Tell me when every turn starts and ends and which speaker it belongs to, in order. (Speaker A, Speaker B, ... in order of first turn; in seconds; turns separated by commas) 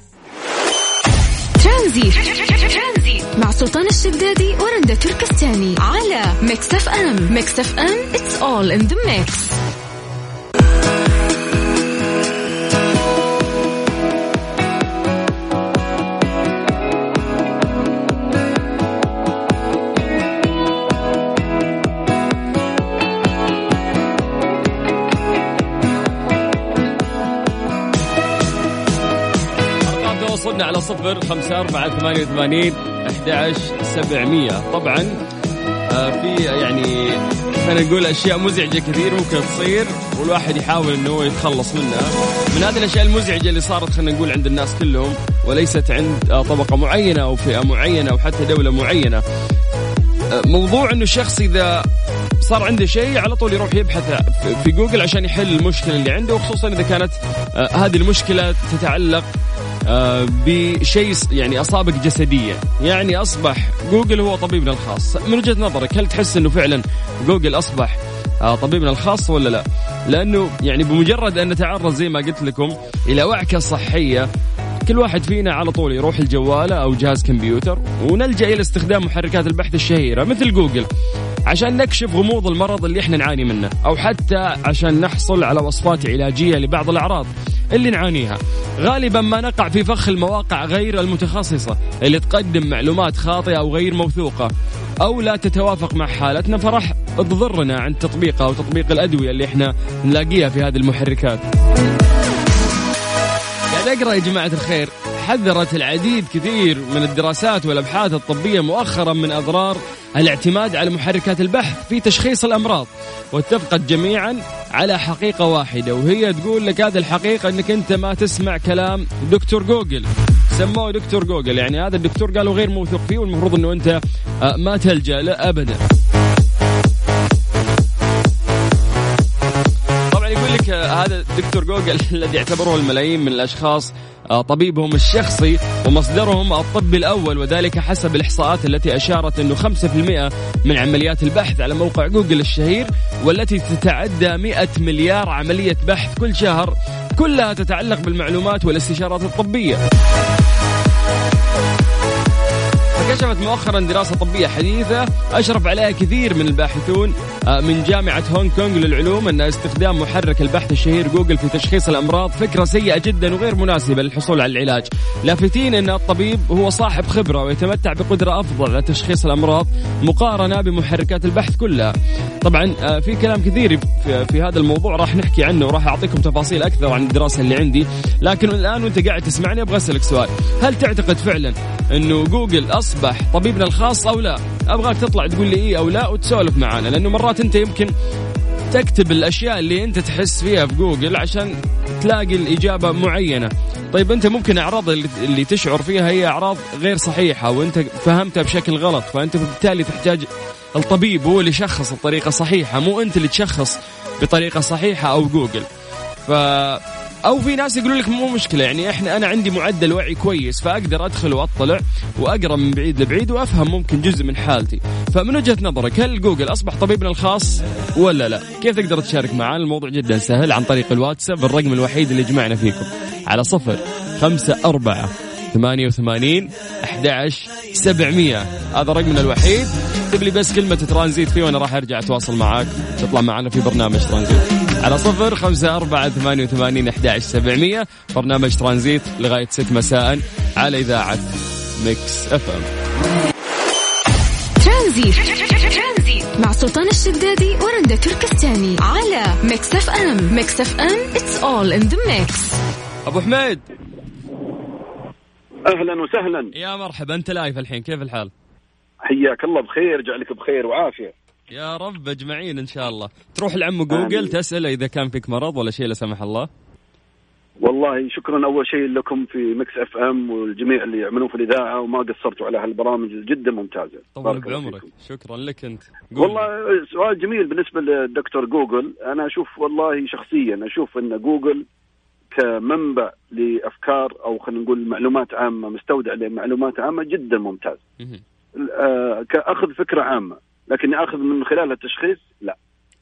Speaker A: 1.6-9.6, Speaker B: 29.8-35.2, Speaker B: 35.9-49.2, Speaker B: 50.3-51.9, Speaker B: 52.4-59.3, Speaker B: 59.9-74.3, Speaker B: 74.8-80.9, Speaker B: 81.5-94.5, Speaker B: 95.0-101.5, Speaker B: 103.7-125.8, Speaker B: 130.1-149.8, Speaker B: 152.9-187.9, Speaker B: 188.7-205.7, Speaker B: 206.2-241.3, Speaker B: 241.8-242.7, Speaker A: 244.6-252.6, Speaker B: 253.1-253.7, Speaker C: 255.7-256.5, Speaker B: 256.5-258.3, Speaker C: 259.0-261.1, Speaker B: 261.5-266.5, Speaker C: 263.9-264.4, Speaker C: 267.6-274.9, Speaker B: 274.1-276.5, Speaker C: 276.2-281.6, Speaker C: 282.3-287.8, Speaker C: 288.6-292.6